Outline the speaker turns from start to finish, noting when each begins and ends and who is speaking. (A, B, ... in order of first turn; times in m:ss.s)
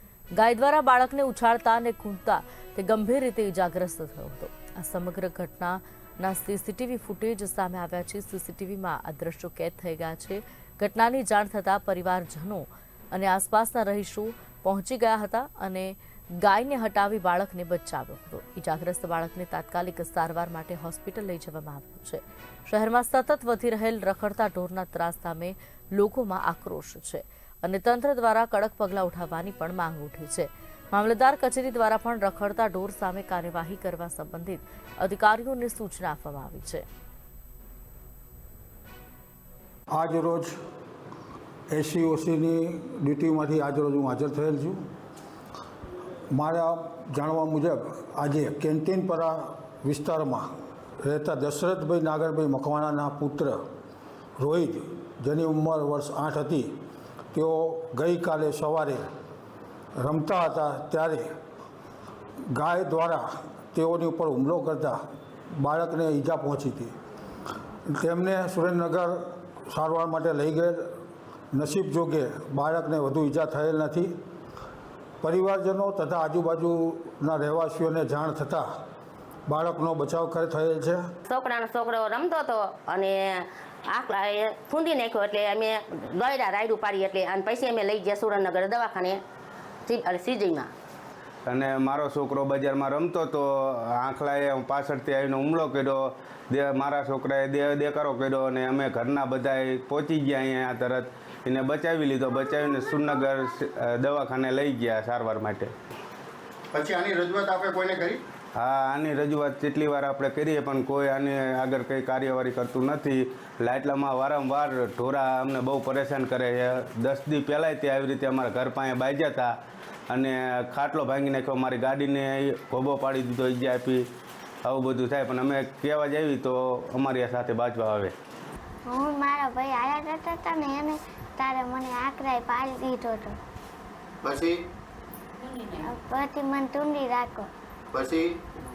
0:00.3-0:36.9 A
0:39.9-0:40.5 B
0:41.7-0:44.8 B
0:46.3-0:50.5 B
0:51.0-0:53.6 B
0:54.4-0:56.7 B
0:57.3-0:59.1 B
1:00.0-1:01.3 B
1:02.5-1:05.0 B
1:05.5-1:06.9 B
1:07.9-1:10.9 B
1:11.5-1:14.1 B
1:15.2-1:18.7 B
1:19.5-1:21.1 B
1:21.3-1:29.2 C
1:29.9-1:30.7 C
1:31.5-1:45.7 D
1:46.7-1:48.2 E
1:48.6-1:59.5 D
2:00.1-2:04.1 D
2:04.6-2:08.1 D
2:08.9-2:13.4 F
2:14.2-2:14.6 E
2:15.7-2:17.5 F
2:17.9-2:18.4 E